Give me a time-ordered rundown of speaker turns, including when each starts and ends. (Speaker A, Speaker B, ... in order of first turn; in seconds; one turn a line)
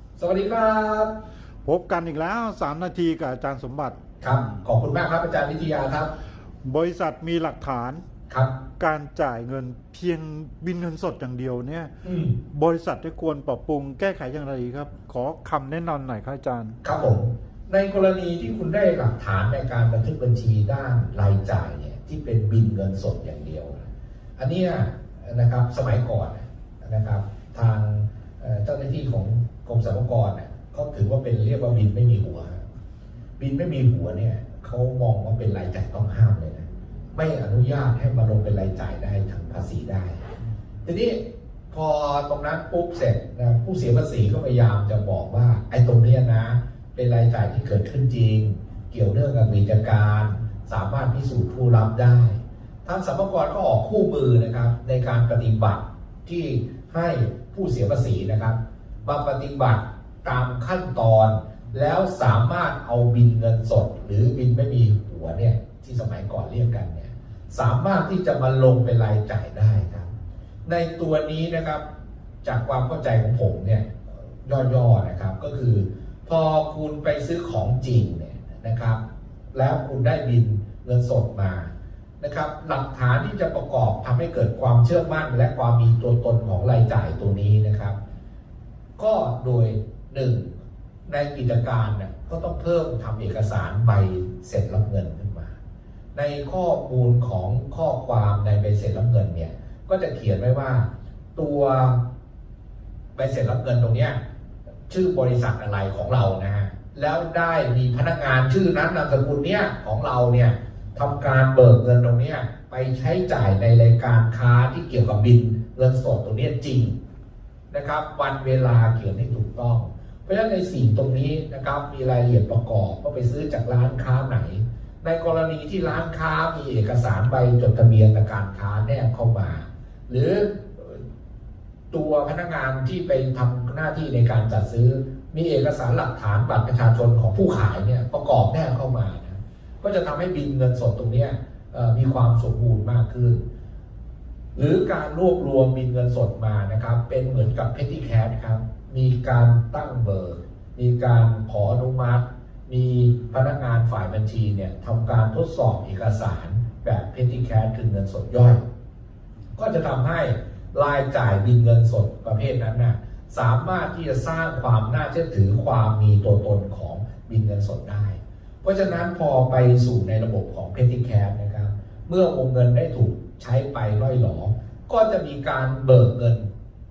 Speaker A: 0.2-1.1
Speaker B: 1.6-4.5
Speaker A: 4.2-6.1
Speaker B: 6.6-8.0
Speaker A: 8.3-8.6
Speaker B: 8.8-11.9
Speaker A: 12.0-12.4
Speaker B: 12.4-16.8
Speaker A: 16.8-32.6
Speaker A: 33.4-40.2
Speaker A: 40.8-70.1
Speaker A: 70.6-71.8
Speaker A: 72.4-79.0
Speaker A: 79.5-88.0
Speaker A: 89.0-90.5
Speaker A: 91.1-95.6
Speaker A: 96.1-102.0
Speaker A: 103.1-104.2
Speaker A: 104.9-117.0
Speaker A: 117.7-131.0
Speaker A: 131.9-143.4
Speaker A: 144.5-158.6
Speaker A: 159.6-176.5